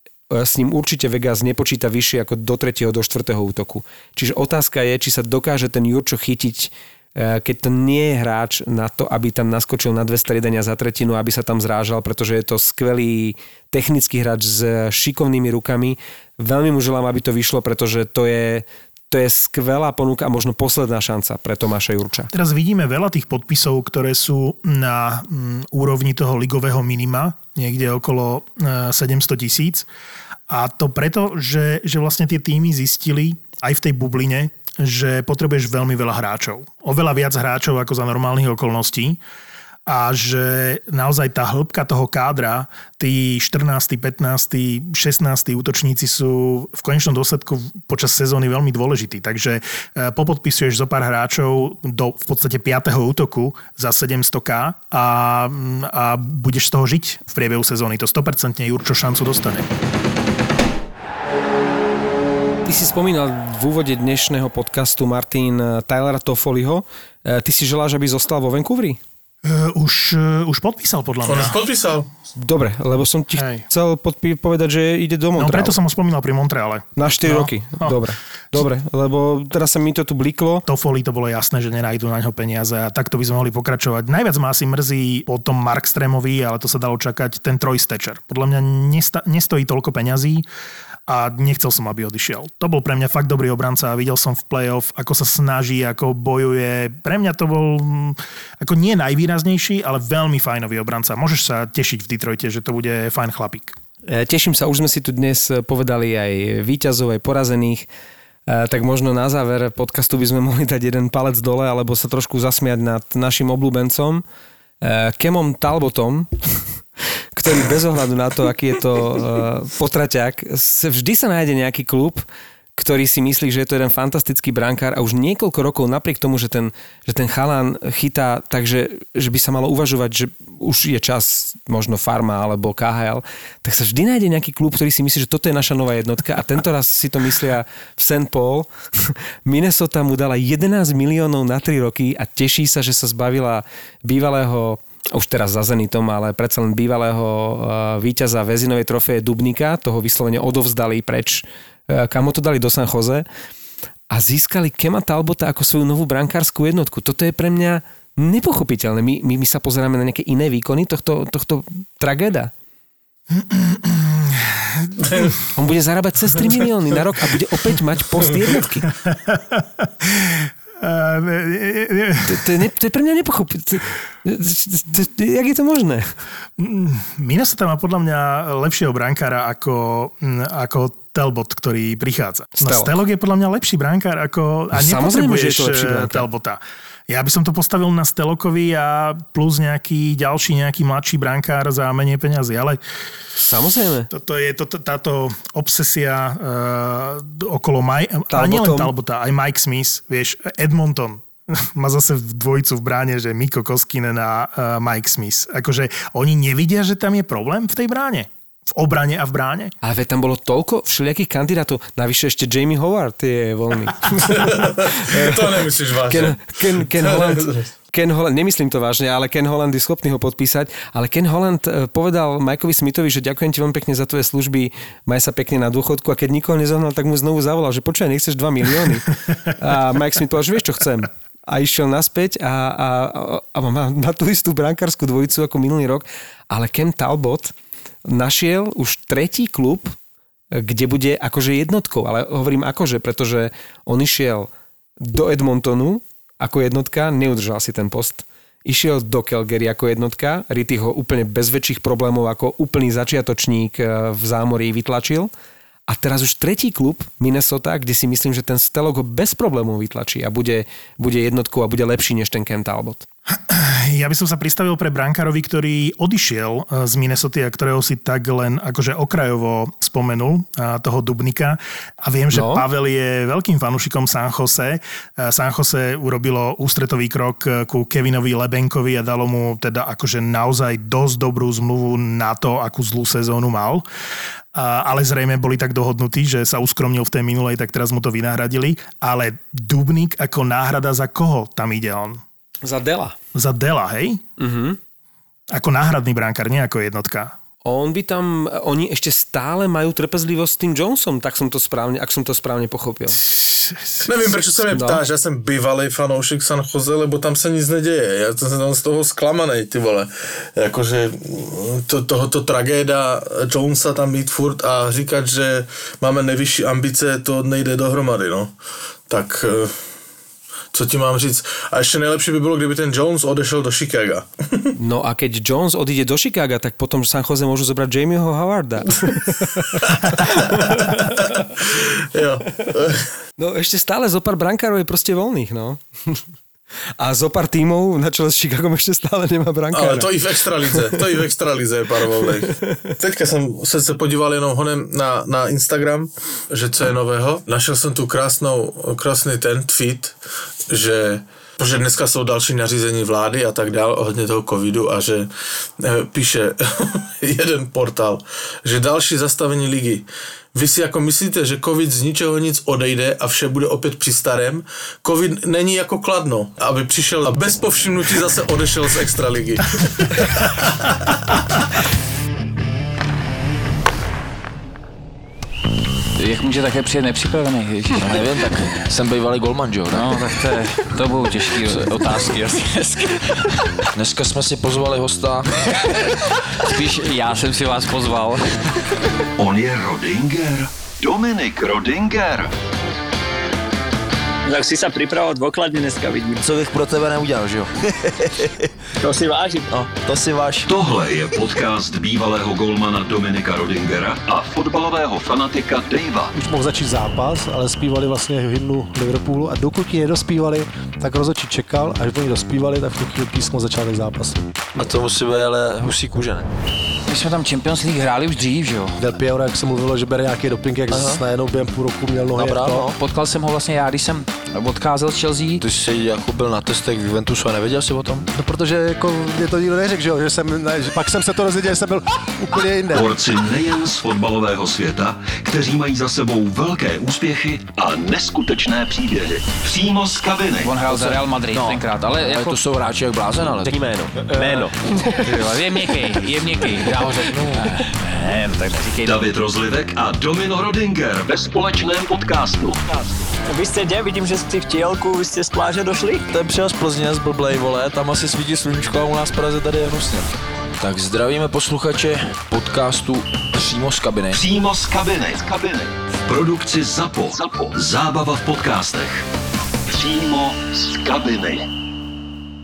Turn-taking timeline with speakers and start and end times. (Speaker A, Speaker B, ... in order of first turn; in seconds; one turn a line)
Speaker A: 0.3-22.3
Speaker B: 22.3-29.9
Speaker B: 30.5-39.2
Speaker B: 39.9-59.7
Speaker A: 62.7-69.0
Speaker B: 69.5-71.6
Speaker C: 71.2-72.1
Speaker A: 72.4-75.8
Speaker B: 73.3-73.7
Speaker B: 75.4-78.0
Speaker A: 77.0-80.7
Speaker B: 80.7-90.5
Speaker B: 91.1-103.8
Speaker A: 104.1-107.9
Speaker A: 108.5-114.2
Speaker A: 114.8-116.7
Speaker A: 117.4-122.2
Speaker A: 122.8-153.2
Speaker A: 154.1-162.5
Speaker B: 163.3-165.4
Speaker A: 165.4-168.9
Speaker B: 168.9-172.6
Speaker A: 172.2-176.1
Speaker B: 176.6-192.8
Speaker A: 182.6-183.0
Speaker A: 184.8-186.3
Speaker A: 193.4-194.1
Speaker B: 194.1-209.7
Speaker A: 198.3-198.9
Speaker A: 209.8-237.5
Speaker C: 214.3-217.7
Speaker A: 238.1-239.9
Speaker A: 240.5-244.5
Speaker A: 245.0-255.3
Speaker A: 255.9-263.1
Speaker B: 263.3-283.9
Speaker A: 272.3-272.6
Speaker B: 284.5-292.2
Speaker A: 292.6-293.1
Speaker B: 293.3-294.2
Speaker A: 294.4-294.8
Speaker B: 295.5-297.4
Speaker A: 297.6-303.2
Speaker B: 303.2-304.1
Speaker C: 304.0-318.5
Speaker A: 304.7-305.0
Speaker C: 319.1-319.8
Speaker C: 320.7-324.7
Speaker A: 324.8-331.2
Speaker C: 329.8-333.1
Speaker A: 333.4-336.2
Speaker A: 337.0-341.0
Speaker C: 339.7-350.1
Speaker A: 342.5-342.9
Speaker C: 350.7-370.9
Speaker D: 376.2-378.7
Speaker E: 378.0-380.3
Speaker D: 379.9-383.8
Speaker E: 381.5-382.3
Speaker E: 383.9-385.6
Speaker D: 386.5-388.9
Speaker F: 389.4-392.5
Speaker G: 394.5-396.4
Speaker E: 396.4-398.7
Speaker G: 399.0-399.7
Speaker E: 399.7-400.8
Speaker F: 400.7-406.3
Speaker H: 406.3-414.9
Speaker E: 414.8-416.4
Speaker D: 417.1-419.0
Speaker H: 419.0-422.9
Speaker E: 420.9-421.2
Speaker E: 422.4-422.9
Speaker D: 422.9-425.6
Speaker E: 425.6-428.3
Speaker H: 428.3-433.2
Speaker F: 432.9-440.8
Speaker D: 440.6-442.6
Speaker E: 440.9-444.7
Speaker D: 444.3-449.2
Speaker F: 449.0-452.8
Speaker G: 453.5-456.3
Speaker E: 456.3-464.4
Speaker F: 464.3-469.2
Speaker F: 469.9-471.7